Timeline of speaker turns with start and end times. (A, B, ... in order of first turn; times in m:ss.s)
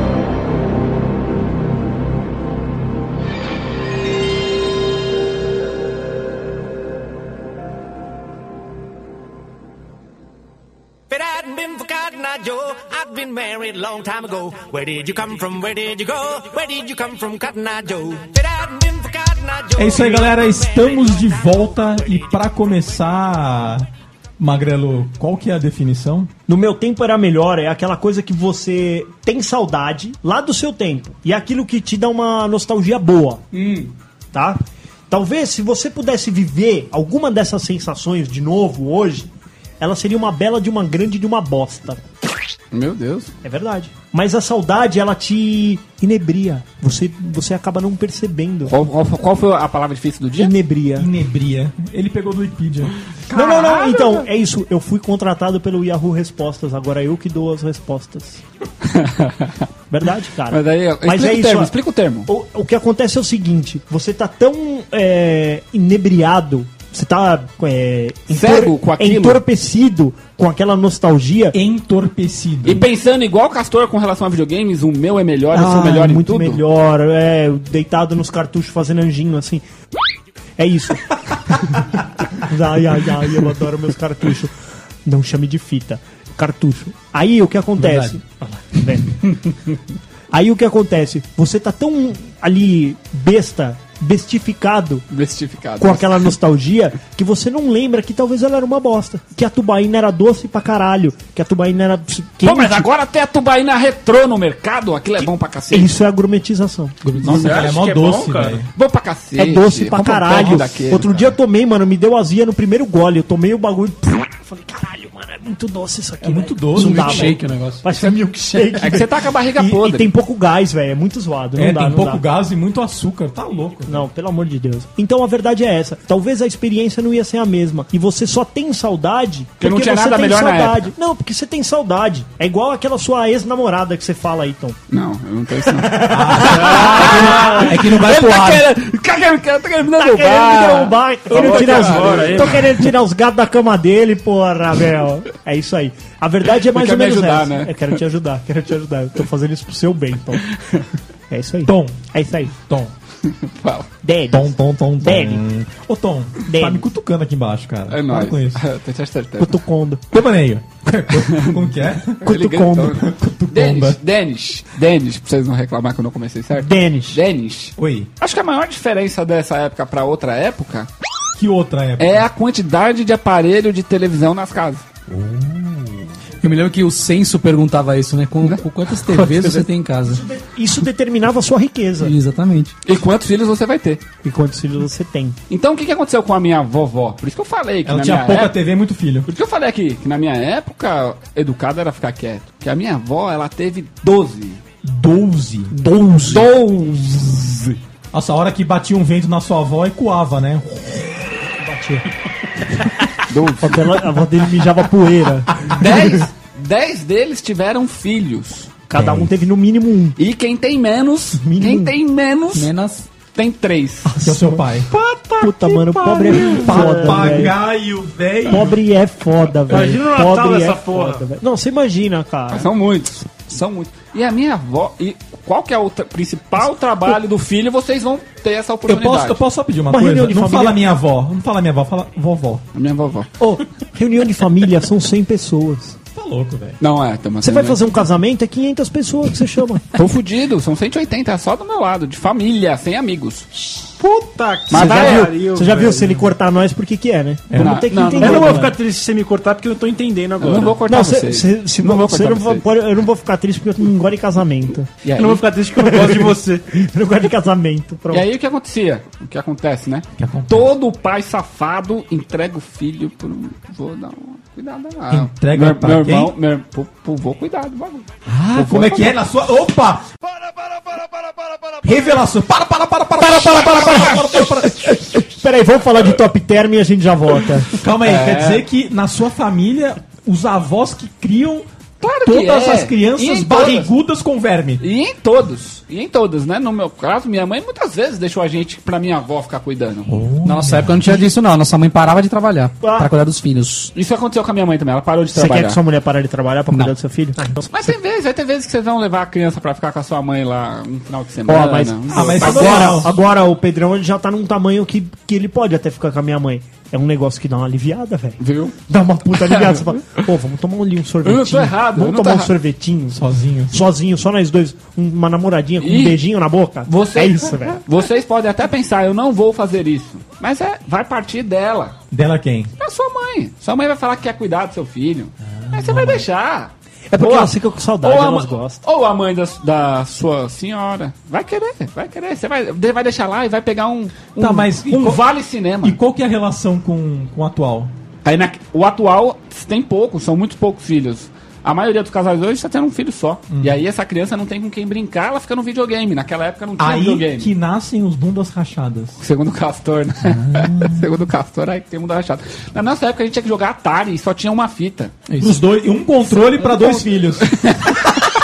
0:11.1-0:22.3 A
0:19.7-0:23.9 B
0:24.4-0:26.3 B
0:26.5-0:33.4 C
0:33.5-0:33.9 D
0:34.3-0:42.0 C
0:42.7-0:43.3 E
0:43.4-0:48.7 C
0:48.6-0:50.5 E
0:50.4-0:51.1 C
0:51.0-0:53.0 B
0:53.3-0:54.3 E
0:53.3-0:58.4 C
0:58.8-0:59.6 E
0:59.9-1:01.7 C
1:00.5-1:02.3 E
1:02.3-1:11.6 C
1:08.3-1:09.4 E
1:11.5-1:12.8 B
1:12.6-1:16.6 E
1:15.5-1:19.6 C
1:15.6-1:16.0 B
1:20.6-1:24.5 C
1:25.0-1:29.6 C
1:27.8-1:28.2 D
1:30.3-1:35.0 C
1:35.1-1:36.3 E
1:35.8-1:42.8 C
1:42.4-1:45.9 E
1:45.2-1:47.0 C
1:47.0-1:47.5 D
1:47.2-1:47.8 E
1:47.2-1:48.7 B
1:47.3-1:48.6 F
1:48.7-1:51.3 E
1:49.4-2:02.2 C
1:56.2-1:57.3 B
1:56.7-1:57.8 D
1:58.5-2:00.1 E
2:01.5-2:04.1 B
2:03.8-2:14.8 C
2:09.6-2:10.9 E
2:14.9-2:22.9 E
2:15.6-2:17.9 C
2:16.0-2:18.7 B
2:20.0-2:30.4 C
2:21.3-2:22.6 F
2:26.6-2:28.0 E
2:30.6-2:30.8 E
2:31.3-2:32.5 C
2:31.6-2:32.0 B
2:32.6-2:32.9 B
2:33.2-2:33.9 E
2:34.0-2:35.4 C
2:34.3-2:38.6 B
2:36.5-2:36.8 C
2:37.9-2:39.6 E
2:39.4-2:40.0 C
2:40.1-2:42.2 B
2:41.1-2:41.6 E
2:42.2-2:50.9 E
2:42.2-2:43.0 C
2:42.9-2:44.0 B
2:46.5-2:47.2 C
2:47.8-2:48.1 B
2:51.4-2:52.3 B
2:52.0-2:54.8 E
2:55.2-2:55.7 D
2:56.4-3:00.2 D
2:59.1-3:02.1 C
3:02.0-3:02.7 D
3:02.8-3:04.0 E
3:04.2-3:05.4 C
3:05.5-3:08.6 E
3:07.8-3:09.3 B
3:09.3-3:14.6 E
3:14.8-3:15.7 B
3:15.7-3:16.5 C
3:16.3-3:17.7 E
3:18.1-3:21.3 B
3:21.5-3:22.1 C
3:23.3-3:23.9 E
3:23.6-3:26.2 C
3:25.7-3:28.7 E
3:28.9-3:30.2 C
3:28.9-3:29.3 B
3:30.2-3:32.7 E
3:31.4-3:31.9 C
3:32.5-3:33.1 D
3:33.3-3:34.1 E
3:34.0-3:34.7 C
3:34.2-3:34.9 B
3:34.9-3:37.2 F
3:35.4-3:37.5 C
3:36.5-3:38.8 B
3:38.5-3:42.7 C
3:39.7-3:41.2 F
3:42.5-3:49.4 E
3:48.9-3:52.6 B
3:49.9-3:50.8 C
3:52.7-3:53.3 E
3:53.4-3:56.0 C
3:56.1-3:56.8 B
3:56.8-3:57.8 E
3:57.4-3:59.9 C
3:59.9-4:03.5 E
4:04.0-4:06.2 F
4:04.7-4:05.4 E
4:04.7-4:08.8 C
4:07.5-4:07.9 B
4:07.6-4:08.6 E
4:08.1-4:10.8 F
4:10.4-4:12.6 E
4:10.8-4:14.9 C
4:15.0-4:15.5 E
4:15.2-4:16.6 F
4:15.8-4:18.2 C
4:18.1-4:29.2 E
4:20.2-4:20.7 B
4:25.1-4:26.3 B
4:28.2-4:30.1 B
4:31.8-4:35.0 B
4:33.2-4:37.8 C
4:37.8-4:41.6 B
4:38.0-4:38.6 E
4:42.0-4:43.9 E
4:42.2-4:44.8 B
4:44.8-4:50.1 E
4:50.1-4:51.3 B
4:50.4-4:53.9 D
4:52.8-4:53.1 C
4:53.9-4:55.8 E
4:55.3-4:57.8 C
4:57.7-5:03.0 E
5:01.5-5:17.8 C
5:02.1-5:03.1 B
5:08.4-5:08.8 E
5:09.4-5:09.8 E
5:11.2-5:12.5 E
5:13.1-5:13.8 B
5:15.8-5:16.2 E
5:16.9-5:22.0 E
5:22.1-5:22.7 B
5:22.8-5:36.0 E
5:25.5-5:26.2 B
5:27.1-5:28.8 C
5:34.4-5:35.2 B
5:35.8-5:37.9 B
5:38.2-5:47.5 E
5:43.5-5:43.8 B
5:46.8-5:49.2 B
5:49.2-5:55.2 E
5:50.4-5:51.0 B
5:55.3-5:55.6 D
5:55.4-5:57.6 B
5:56.6-5:58.1 E